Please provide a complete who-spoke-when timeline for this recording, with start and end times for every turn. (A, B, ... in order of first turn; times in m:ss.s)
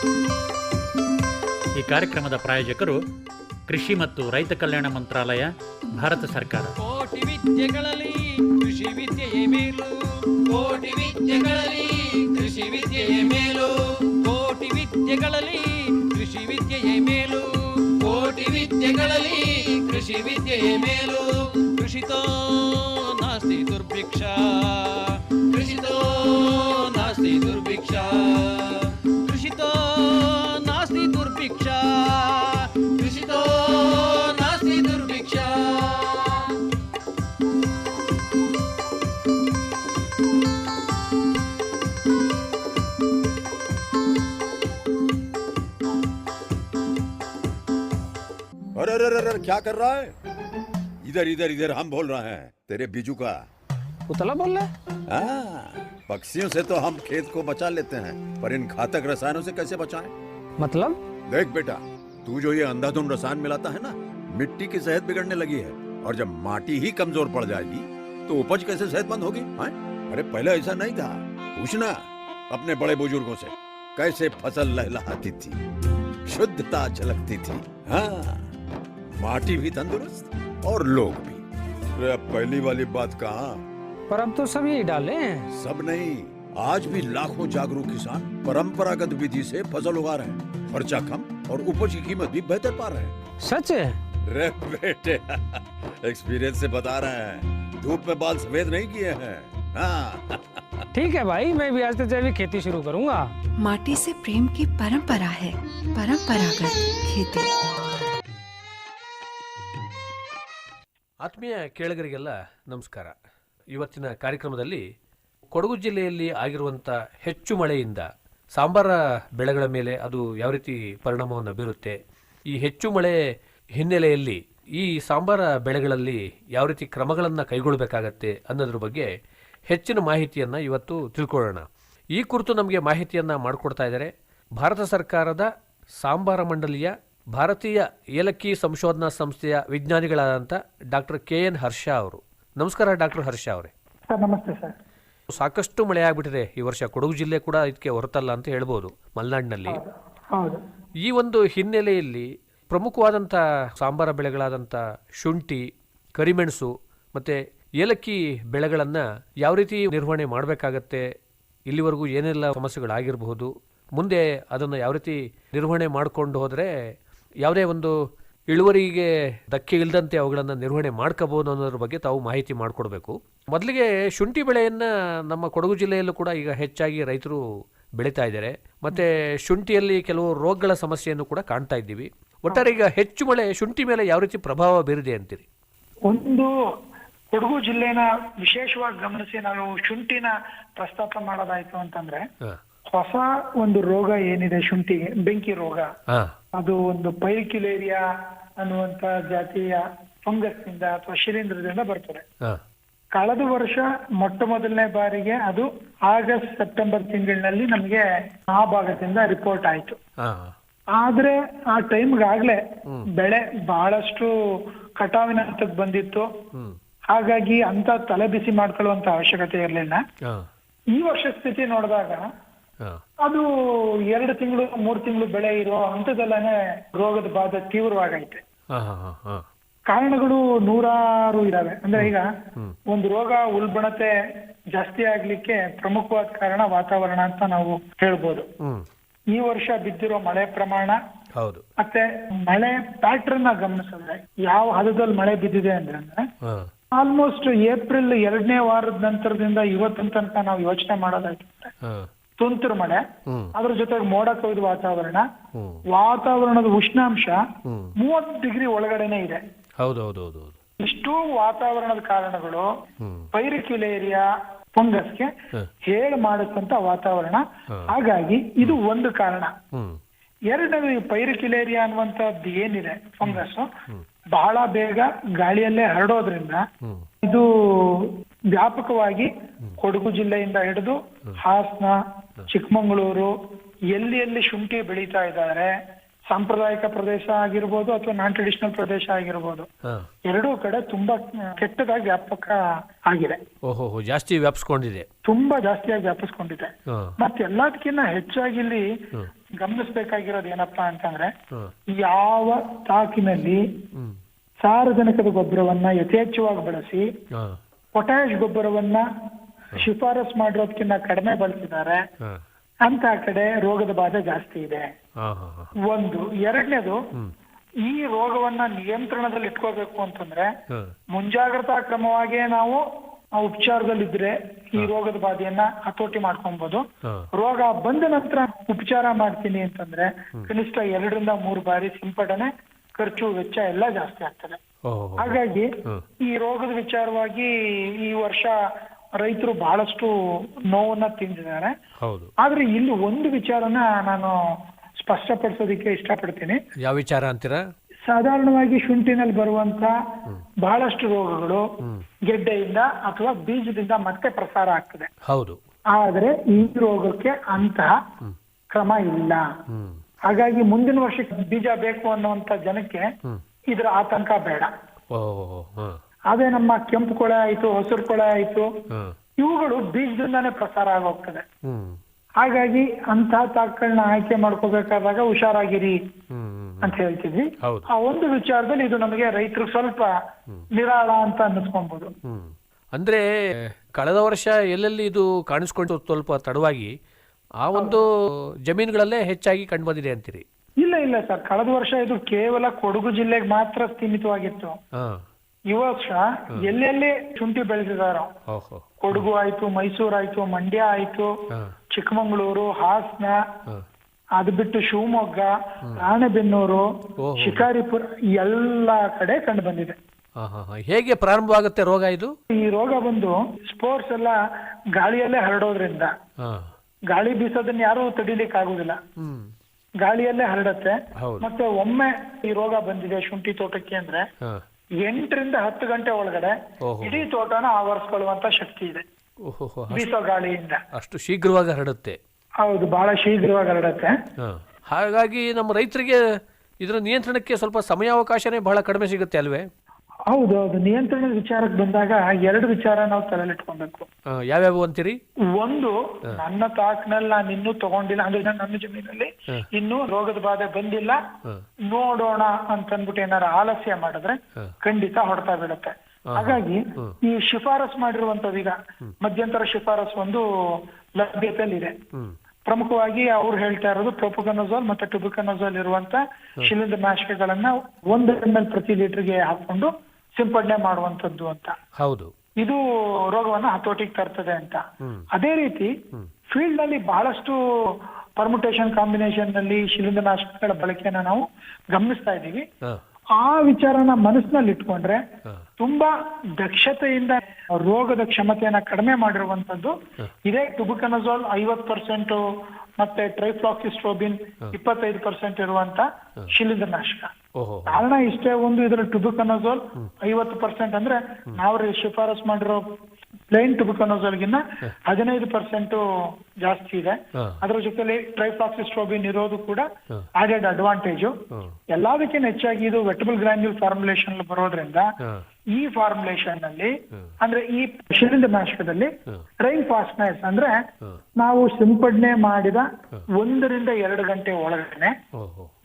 0:01.8-0:03.0 A
0:03.7-0:06.7 A
0:06.8-0:36.4 B
0:48.8-0:50.1 C
0:51.0-0:53.4 C
0:54.1-0:54.7 D
0:55.1-1:00.1 C
1:00.6-1:01.0 D
1:01.3-1:15.6 C
1:16.3-1:18.4 C
1:19.2-1:21.4 C
1:21.9-1:23.6 C
1:24.1-1:25.5 D
1:25.5-1:33.1 C
1:33.4-1:33.9 D
1:34.3-1:40.6 C
1:40.9-1:43.3 D
1:43.6-1:47.5 E
1:51.2-1:53.1 F
1:53.7-1:54.8 F
1:55.5-2:02.0 F
2:02.5-2:03.2 F
2:03.8-2:09.1 F
2:09.7-2:15.5 F
2:16.0-2:23.7 F
2:24.1-2:24.8 G
2:25.3-2:29.8 F
2:29.7-2:30.6 G
2:31.0-2:41.0 F
2:41.7-2:46.7 F
2:47.4-2:48.0 F
2:48.5-2:57.4 F
2:58.0-3:05.4 F
3:06.1-3:06.5 G
3:07.3-3:12.2 G
3:12.9-3:15.9 G
3:16.1-3:16.4 F
3:16.6-3:18.0 G
3:18.6-3:22.2 G
3:23.2-3:30.0 G
3:30.2-3:30.5 F
3:30.9-3:32.6 G
3:33.1-3:34.3 G
3:35.0-3:36.3 G
3:37.1-3:40.0 G
3:40.9-3:42.3 G
3:43.2-3:48.4 G
3:48.7-3:49.5 F
3:49.9-3:52.3 G
3:52.0-3:52.8 F
3:52.9-3:54.1 G
3:54.7-3:58.5 G
3:59.3-4:01.0 G
4:01.4-4:01.6 F
4:01.8-4:06.3 G
4:06.4-4:06.7 F
4:06.9-4:11.7 G
4:12.4-4:13.0 G
4:13.3-4:13.5 F
4:13.6-4:15.3 G
4:15.6-4:15.8 F
4:15.9-4:17.4 G
4:17.7-4:18.0 F
4:18.0-4:19.4 G
4:19.8-4:20.6 F
4:20.8-4:22.7 G
4:23.0-4:23.3 F
4:23.3-4:25.3 G
4:25.8-4:29.6 G
4:29.7-4:30.0 F
4:30.5-4:33.7 G
4:33.2-4:34.0 F
4:34.4-4:36.7 G
4:36.8-4:37.1 F
4:37.2-4:42.0 G
4:42.5-4:43.3 G
4:43.9-4:45.7 G
4:46.3-4:49.7 G
4:50.3-4:53.4 G
4:53.7-4:55.1 F
4:55.2-4:58.9 G
4:56.9-4:57.2 F
4:59.6-5:01.3 G
5:01.9-5:03.6 G
5:03.9-5:04.2 F
5:04.6-5:07.1 G
5:07.4-5:07.6 F
5:07.9-5:09.0 G
5:09.8-5:12.0 G
5:12.8-5:14.9 G
5:15.2-5:15.7 F
5:15.8-5:17.0 G
5:17.8-5:20.5 G
5:21.1-5:22.8 G
5:23.4-5:34.6 G
5:34.9-5:36.0 F
5:35.2-5:38.6 G
5:39.2-5:40.1 G
5:40.7-5:41.7 G
5:42.0-5:42.3 F
5:42.4-5:44.4 G
5:45.0-5:46.6 G
5:46.8-5:47.6 F
5:48.1-5:49.9 G
5:50.6-5:51.6 G
5:52.3-5:55.1 G
5:55.3-5:55.6 F
5:55.9-5:57.9 G
5:58.7-5:59.4 G
5:59.7-6:00.0 F
6:00.3-6:03.1 G
6:03.7-6:04.7 G
6:05.1-6:06.0 F
6:06.3-6:08.7 G
6:08.9-6:09.2 F
6:09.4-6:11.4 G
6:11.6-6:12.0 F
6:12.4-6:16.0 G
6:16.3-6:17.0 F
6:16.8-6:20.1 G
6:17.6-6:17.9 F
6:20.8-6:22.1 G
6:22.2-6:26.9 F
6:27.6-6:30.4 F
6:27.8-6:28.0 G
6:30.8-6:34.8 G
6:35.0-6:35.2 F
6:35.7-6:38.3 G
6:38.5-6:39.3 F
6:39.0-6:41.3 G
6:41.9-6:43.4 G
6:44.4-6:46.9 G
6:47.2-6:47.7 F
6:47.4-6:50.0 G
6:50.4-6:52.3 F
6:52.5-6:54.4 G
6:55.0-6:56.1 G
6:56.4-6:56.7 F
6:57.1-6:59.0 G
6:59.2-6:59.5 F
7:00.0-7:04.2 G
7:01.2-7:01.5 F
7:05.0-7:09.0 G
7:06.8-7:07.2 F
7:09.5-7:10.1 F
7:09.9-7:10.8 G
7:10.9-7:12.2 F
7:12.6-7:14.2 G
7:14.4-7:16.2 F
7:16.8-7:19.7 F
7:20.3-7:24.1 G
7:24.3-7:25.2 F
7:25.6-7:31.2 G
7:31.9-7:41.9 G
7:36.3-7:37.2 F
7:42.7-7:51.8 G
7:52.0-7:52.3 F
7:53.3-7:55.9 G
7:56.5-8:02.6 G
8:03.4-8:05.2 G
8:05.8-8:09.9 G
8:10.4-8:12.4 G
8:13.0-8:17.3 G
8:17.6-8:18.1 F
8:17.9-8:22.9 G
8:23.5-8:26.0 G
8:26.6-8:31.4 G
8:31.5-8:31.8 F
8:31.9-8:35.1 G
8:35.7-8:39.1 G
8:39.6-8:40.8 G
8:41.4-8:45.1 G
8:45.4-8:45.7 F